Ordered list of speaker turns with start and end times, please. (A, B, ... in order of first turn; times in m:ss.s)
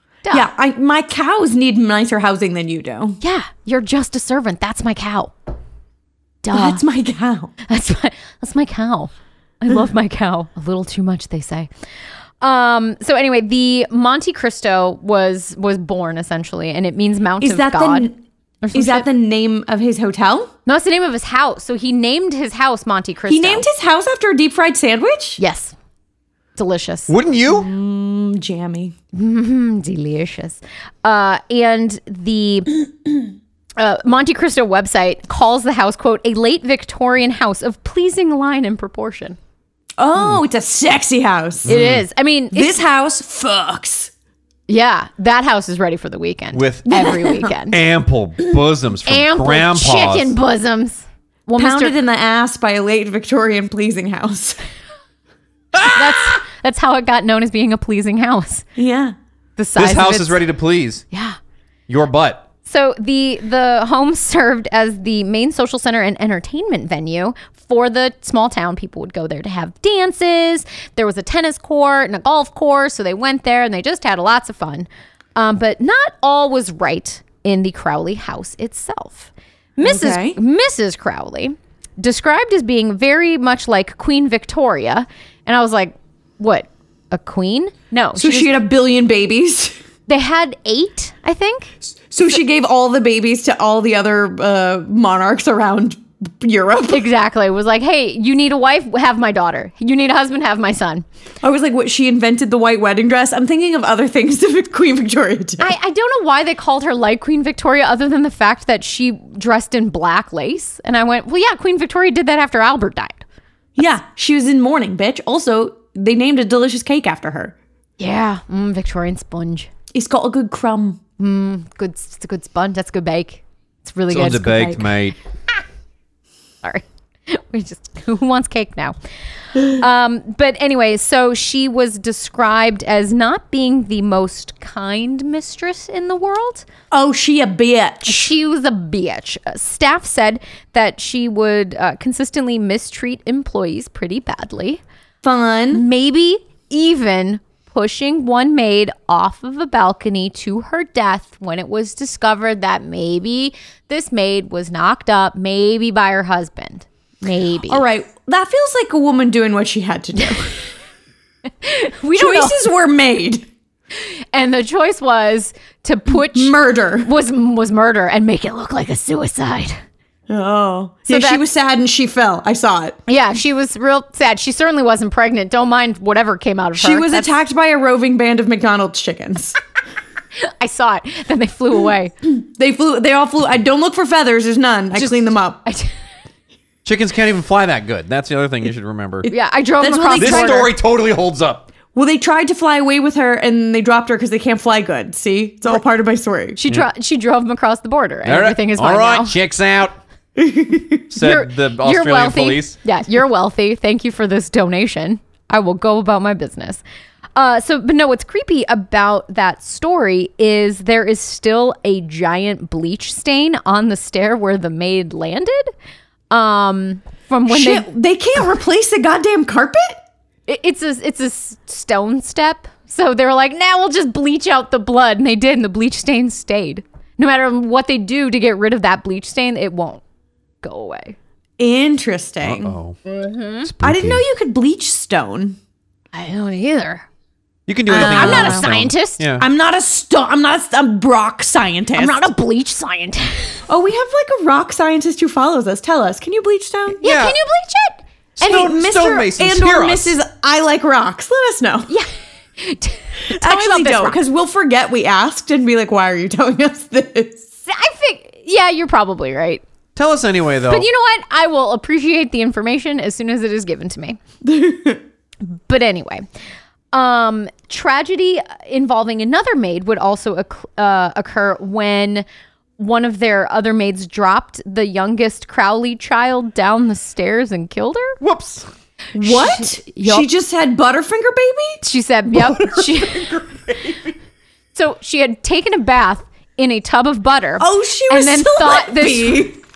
0:00.3-0:03.2 A
0:03.2-0:05.3 B
0:06.4-0:06.8 B
0:06.5-0:07.5 A
0:07.6-0:11.7 B
0:12.4-0:18.1 B
0:17.4-0:18.2 A
0:18.6-0:19.1 B
0:18.7-0:20.5 A
0:20.6-0:23.6 B
0:23.3-0:25.4 A
0:25.4-0:25.8 B
0:26.6-0:27.1 B
0:27.1-0:27.7 C
0:27.4-0:28.9 A
0:29.1-0:32.9 B
0:33.8-0:39.4 B
0:40.0-0:41.7 A
0:41.6-0:42.0 C
0:41.7-0:42.8 B
0:42.5-0:44.1 A
0:44.7-0:47.8 B
0:46.5-0:47.0 C
0:46.9-0:47.5 A
0:47.7-0:50.3 C
0:49.1-0:52.0 B
0:51.6-0:54.6 A
0:55.8-0:58.6 B
0:58.8-0:59.1 A
0:59.6-1:00.4 B
0:59.8-1:01.0 C
1:01.1-1:01.4 B
1:01.9-1:02.4 C
1:02.6-1:28.6 B
1:19.8-1:20.4 A
1:28.2-1:29.8 A
1:30.1-1:31.7 B
1:32.1-1:37.1 A
1:36.9-1:41.0 B
1:41.4-1:45.7 A
1:45.6-1:53.2 B
1:53.8-1:57.6 A
1:58.0-1:59.7 B
1:59.9-2:01.0 A
2:01.2-2:05.1 B
2:04.1-2:05.2 C
2:06.6-2:09.0 B
2:09.6-2:16.7 B
2:16.9-2:18.3 A
2:18.1-2:24.8 B
2:25.2-2:25.8 A
2:25.7-2:37.8 B
2:37.7-2:40.5 A
2:41.6-2:42.6 B
2:42.1-2:43.4 A
2:44.0-2:49.8 B
2:46.1-2:47.1 A
2:50.3-2:53.0 A
2:51.1-2:51.4 B
2:53.1-2:57.3 B
2:56.8-2:59.6 A
3:00.4-3:02.1 B
3:02.3-3:05.6 A
3:04.9-3:05.9 B
3:06.8-3:09.3 C
3:09.2-3:10.7 A
3:09.3-3:10.7 B
3:10.2-3:11.7 C
3:11.9-3:16.6 A
3:16.6-3:19.4 B
3:18.2-3:20.0 C
3:20.4-3:21.0 A
3:21.1-3:22.8 C
3:21.2-3:26.8 B
3:27.4-3:35.7 B
3:36.3-3:37.9 B
3:37.5-3:40.0 A
3:40.5-3:50.0 B
3:50.6-3:51.2 B
3:51.6-3:52.8 A
3:52.4-3:53.0 C
3:53.0-3:53.7 B
3:53.6-3:54.2 C
3:53.8-3:55.6 A
3:56.1-3:57.1 B
3:57.7-3:59.4 C
3:57.9-3:59.2 B
3:57.9-3:58.7 A
3:59.4-4:02.2 A
4:01.9-4:03.6 B
4:03.7-4:07.0 A
4:07.0-4:08.7 B
4:07.0-4:07.4 C
4:08.4-4:10.2 C
4:08.4-4:11.9 A
4:11.9-4:14.2 B
4:13.4-4:17.4 A
4:17.7-4:19.6 B
4:20.0-4:20.9 C
4:20.7-4:24.2 B
4:24.4-4:25.0 A
4:25.7-4:26.2 B
4:26.9-4:32.2 B
4:32.8-4:38.2 B
4:38.2-4:38.7 C
4:39.1-4:41.8 A
4:39.2-4:40.3 B
4:41.8-4:43.3 B
4:42.3-4:44.1 C
4:44.8-4:49.5 B
4:47.6-4:49.6 A